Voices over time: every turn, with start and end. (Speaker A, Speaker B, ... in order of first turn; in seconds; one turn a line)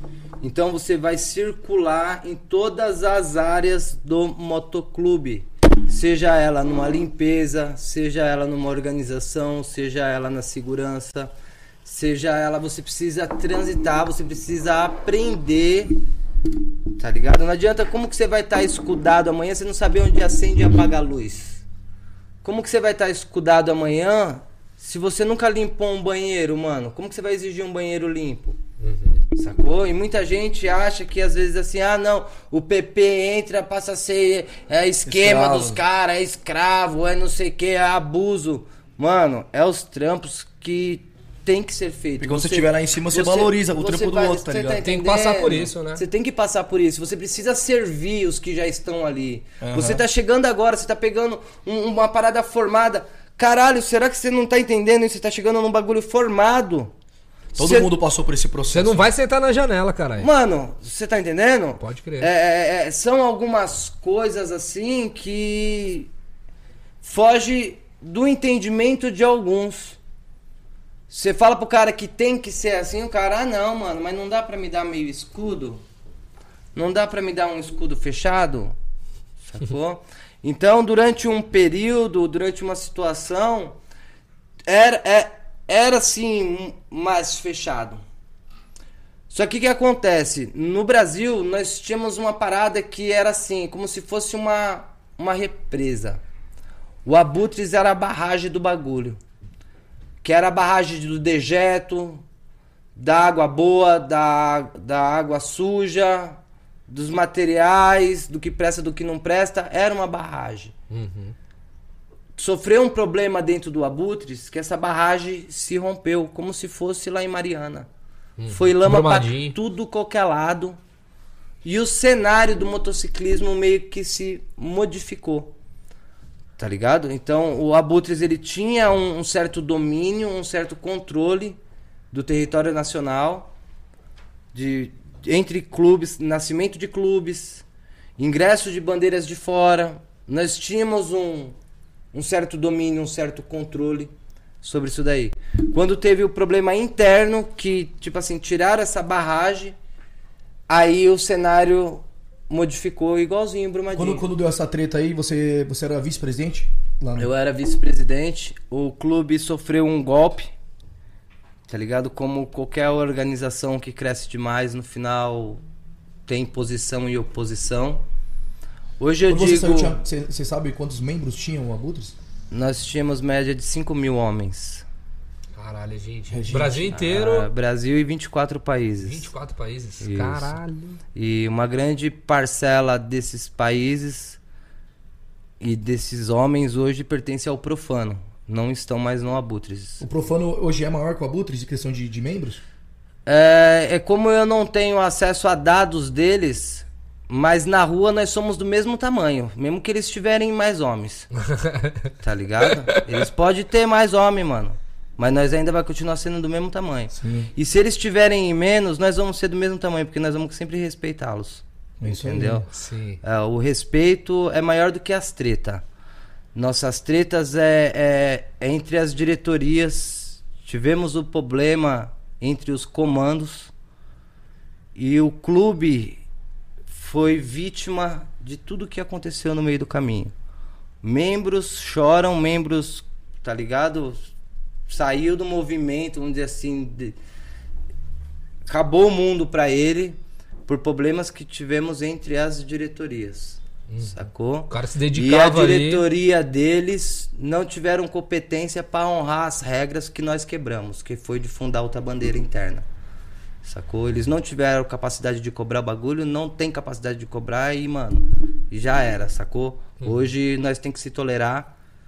Speaker A: 0.4-11.3
Speaker A: 11.8-15.9
Speaker A: 17.0-21.6
Speaker A: 22.4-28.6
Speaker B: 28.8-29.2
Speaker A: 29.3-56.9
Speaker C: 35.0-35.8
Speaker C: 42.2-44.8
Speaker B: 44.8-46.0
Speaker C: 49.6-50.0
Speaker A: 57.5-57.9
Speaker C: 57.5-59.0
Speaker B: 58.7-60.3
Speaker A: 60.2-66.1
Speaker B: 61.8-62.3
Speaker A: 67.0-70.0
Speaker A: 71.1-75.8
Speaker A: 76.7-78.7
Speaker A: 79.5-83.8
Speaker A: 84.7-88.0
Speaker A: 89.3-96.2
Speaker A: 97.0-99.2
Speaker A: 100.2-102.2
Speaker A: 103.0-110.7
Speaker B: 110.9-111.3
Speaker A: 112.4-117.9
Speaker B: 118.4-119.5
Speaker A: 118.5-120.8
Speaker A: 121.6-125.5
Speaker A: 126.6-131.6
Speaker A: 132.1-133.5
Speaker A: 134.5-137.6
Speaker A: 138.2-141.6
Speaker A: 142.1-149.7
Speaker A: 150.7-154.2
Speaker C: 153.9-157.3
Speaker A: 157.2-160.5
Speaker A: 161.7-165.6
Speaker A: 166.3-168.0
Speaker A: 169.0-170.0
Speaker C: 169.3-172.2
Speaker A: 172.5-174.8
Speaker B: 175.6-177.5
Speaker C: 176.3-176.9
Speaker A: 176.9-179.3
Speaker B: 179.0-181.0
Speaker A: 180.0-180.6
Speaker A: 181.1-184.4
Speaker A: 185.6-190.0
Speaker C: 190.0-192.6
Speaker A: 193.2-201.3
Speaker B: 201.5-202.0
Speaker A: 202.2-212.7
Speaker B: 202.6-203.2
Speaker C: 207.1-207.5
Speaker C: 212.0-212.7
Speaker B: 212.7-213.2
Speaker A: 213.2-215.8
Speaker A: 216.5-223.7
Speaker A: 224.9-226.2
Speaker A: 226.9-230.3
Speaker A: 231.0-234.3
Speaker A: 234.9-237.2
Speaker A: 238.7-240.2
Speaker A: 240.7-252.8
Speaker B: 243.9-244.2
Speaker B: 244.7-246.1
Speaker A: 253.6-261.7